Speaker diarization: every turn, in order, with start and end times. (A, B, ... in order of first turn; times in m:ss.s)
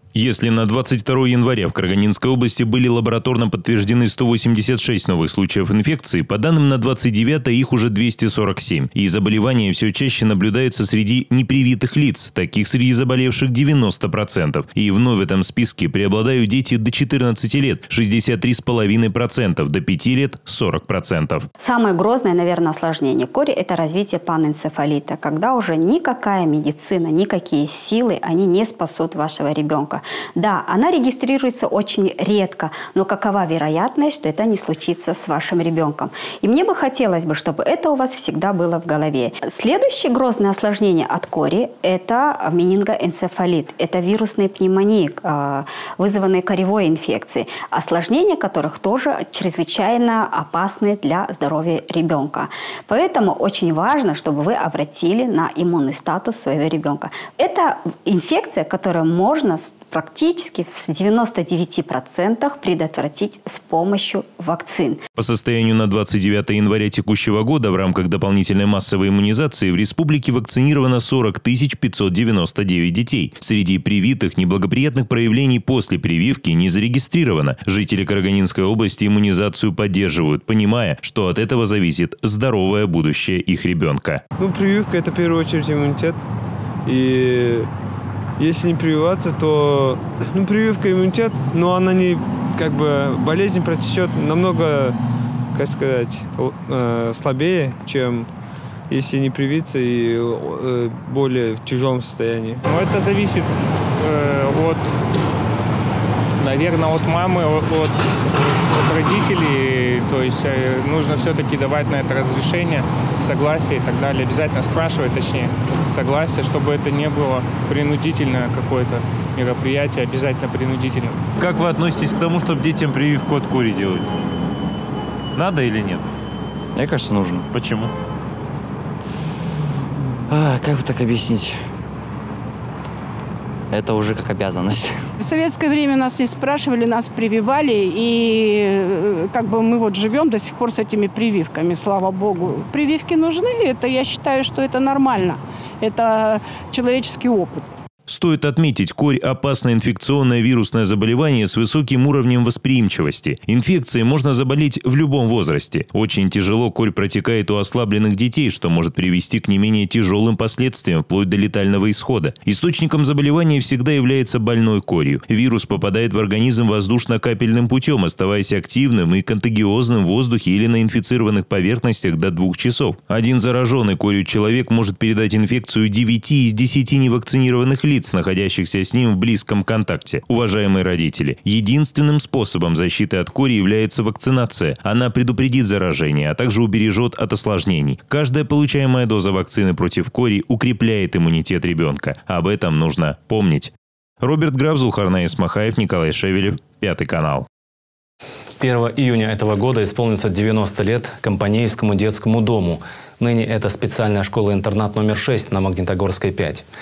0:00.2-0:21.5 A
0:21.6-1:05.0 B
1:05.2-1:24.2 A
1:24.4-1:26.2 C
1:26.9-1:27.7 C
1:28.4-1:35.0 C
1:35.5-1:38.3 C
1:38.9-1:42.6 C
1:42.7-1:45.0 D
1:46.4-1:48.1 D
1:48.6-2:01.2 D
2:01.4-2:04.1 A
2:05.4-2:06.1 A
2:06.8-2:07.4 E
2:07.5-2:07.9 A
2:10.3-2:11.5 E
2:13.7-2:15.0 E
2:15.2-2:27.7 F
2:28.1-3:17.5 A
3:18.6-3:26.6 G